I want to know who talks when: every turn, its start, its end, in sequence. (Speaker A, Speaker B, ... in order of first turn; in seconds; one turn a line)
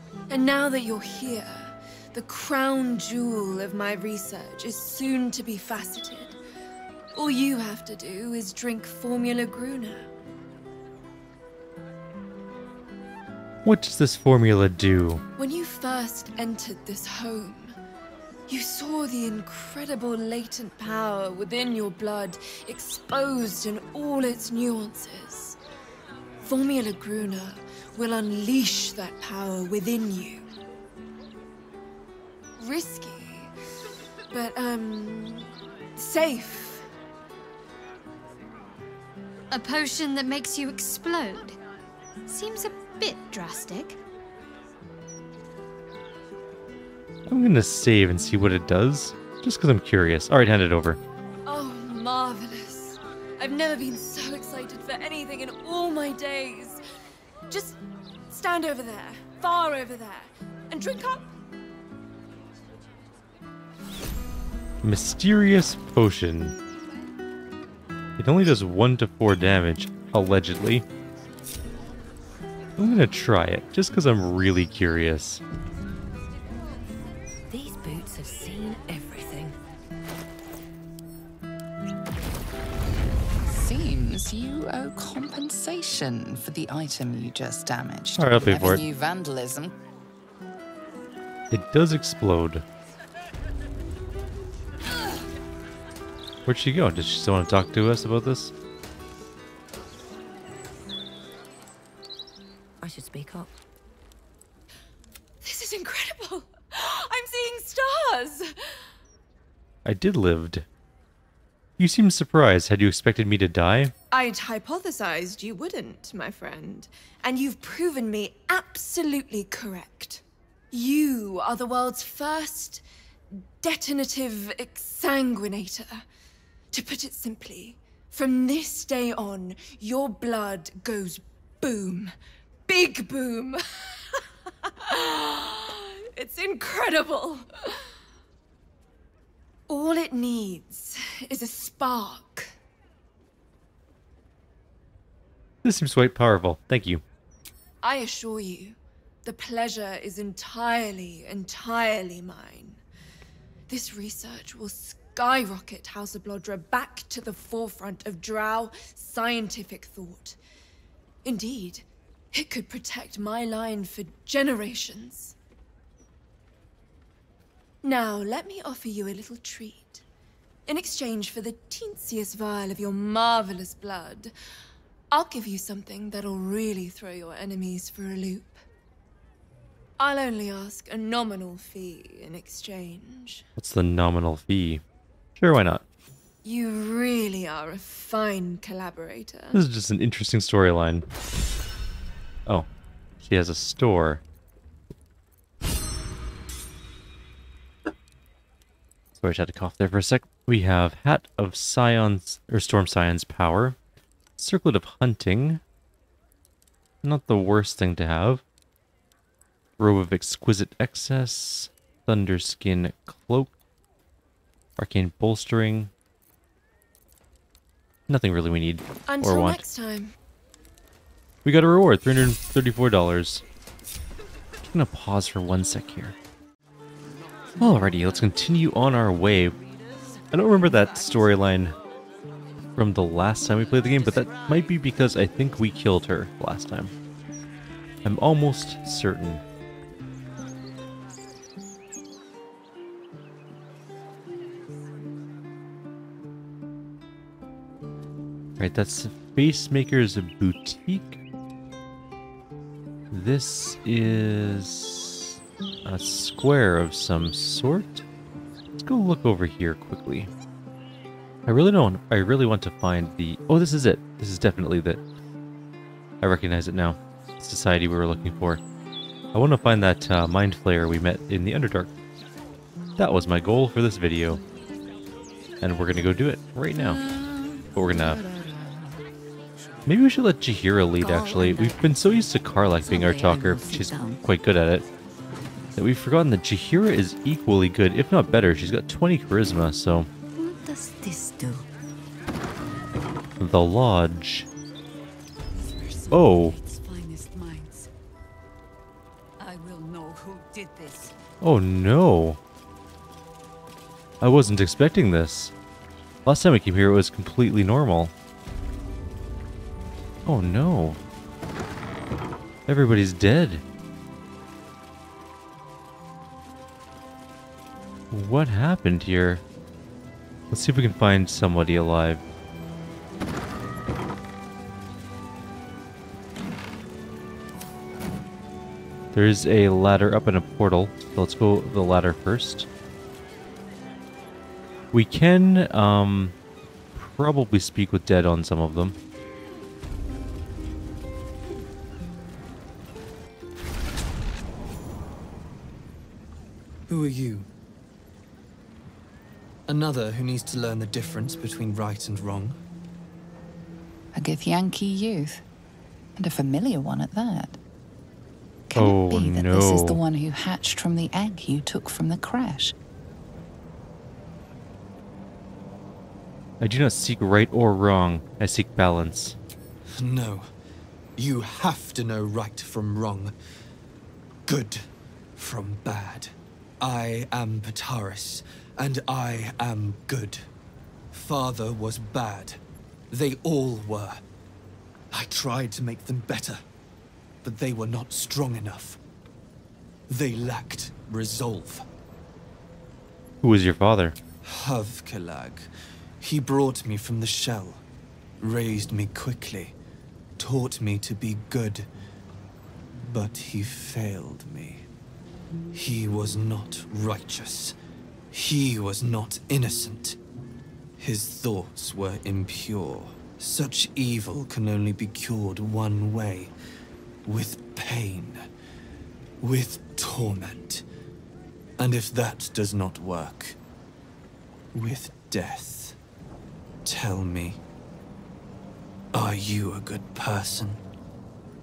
Speaker A: 0.3-6.4
Speaker A: 7.2-10.1
Speaker B: 13.7-15.2
Speaker A: 15.4-17.8
Speaker A: 18.5-25.6
Speaker A: 26.4-30.4
Speaker A: 32.6-33.5
Speaker A: 34.3-36.9
Speaker C: 39.5-41.6
Speaker C: 42.3-44.0
Speaker B: 47.3-51.0
Speaker A: 51.5-56.8
Speaker A: 57.5-57.8
Speaker A: 58.3-61.3
Speaker B: 64.8-66.6
Speaker B: 68.2-70.8
Speaker B: 72.8-75.4
Speaker D: 77.5-79.5
Speaker E: 83.5-89.7
Speaker B: 88.2-88.8
Speaker B: 91.5-92.6
Speaker B: 96.5-98.5
Speaker D: 102.8-103.5
Speaker A: 105.4-108.5
Speaker B: 109.8-110.7
Speaker B: 111.8-113.9
Speaker A: 114.1-122.8
Speaker A: 123.6-126.0
Speaker A: 126.7-132.1
Speaker A: 132.7-137.8
Speaker A: 139.7-142.5
Speaker B: 145.6-147.0
Speaker A: 147.8-152.8
Speaker A: 153.7-160.4
Speaker A: 161.2-165.3
Speaker A: 167.8-170.0
Speaker A: 170.7-174.3
Speaker A: 175.1-178.6
Speaker A: 180.0-183.4
Speaker B: 183.6-184.8
Speaker B: 185.4-185.8
Speaker A: 186.4-189.6
Speaker B: 189.5-191.1
Speaker B: 193.2-194.2
Speaker B: 199.2-203.8
Speaker B: 204.4-205.6
Speaker B: 207.0-208.4
Speaker B: 209.8-213.5
Speaker B: 214.8-215.9
Speaker B: 218.1-219.6
Speaker A: 219.1-220.2
Speaker B: 221.4-223.4
Speaker B: 224.6-226.2
Speaker B: 227.6-229.6
Speaker B: 230.3-231.8
Speaker B: 232.8-236.9
Speaker B: 238.1-239.4
Speaker B: 248.6-251.2
Speaker B: 253.1-258.1
Speaker B: 258.8-260.3
Speaker B: 261.5-265.0
Speaker B: 266.2-268.6
Speaker B: 269.3-271.9
Speaker B: 273.0-274.4
Speaker B: 275.6-277.1
Speaker D: 276.8-278.8
Speaker B: 277.7-278.2
Speaker B: 279.9-284.9
Speaker D: 281.0-284.2
Speaker B: 285.8-290.1
Speaker D: 290.4-291.7
Speaker B: 293.4-294.5
Speaker F: 295.5-297.9
Speaker B: 296.1-296.6
Speaker F: 299.4-301.1
Speaker B: 301.4-302.4
Speaker B: 304.2-305.5
Speaker B: 306.2-308.1
Speaker B: 310.3-311.0
Speaker B: 312.7-313.6
Speaker B: 318.1-319.4
Speaker B: 320.5-322.2
Speaker B: 329.1-332.7
Speaker B: 334.9-336.4
Speaker B: 336.9-339.0
Speaker G: 346.9-347.5
Speaker G: 349.7-352.6
Speaker E: 354.1-355.4
Speaker E: 356.2-357.6
Speaker E: 358.7-362.8
Speaker B: 358.8-360.0
Speaker B: 366.6-369.4
Speaker G: 370.0-370.5
Speaker G: 371.2-373.3
Speaker G: 374.5-380.5
Speaker G: 381.1-384.2
Speaker G: 385.1-386.6
Speaker G: 387.4-389.0
Speaker G: 390.1-391.9
Speaker B: 393.4-394.2
Speaker G: 394.4-397.8
Speaker G: 398.4-399.8
Speaker G: 400.4-401.9
Speaker G: 403.0-404.9
Speaker G: 405.7-407.8
Speaker G: 408.3-410.2
Speaker G: 411.0-416.5
Speaker G: 417.2-418.4
Speaker G: 419.4-420.9
Speaker G: 421.8-423.6
Speaker G: 424.7-426.0
Speaker G: 426.9-427.6
Speaker G: 429.1-430.8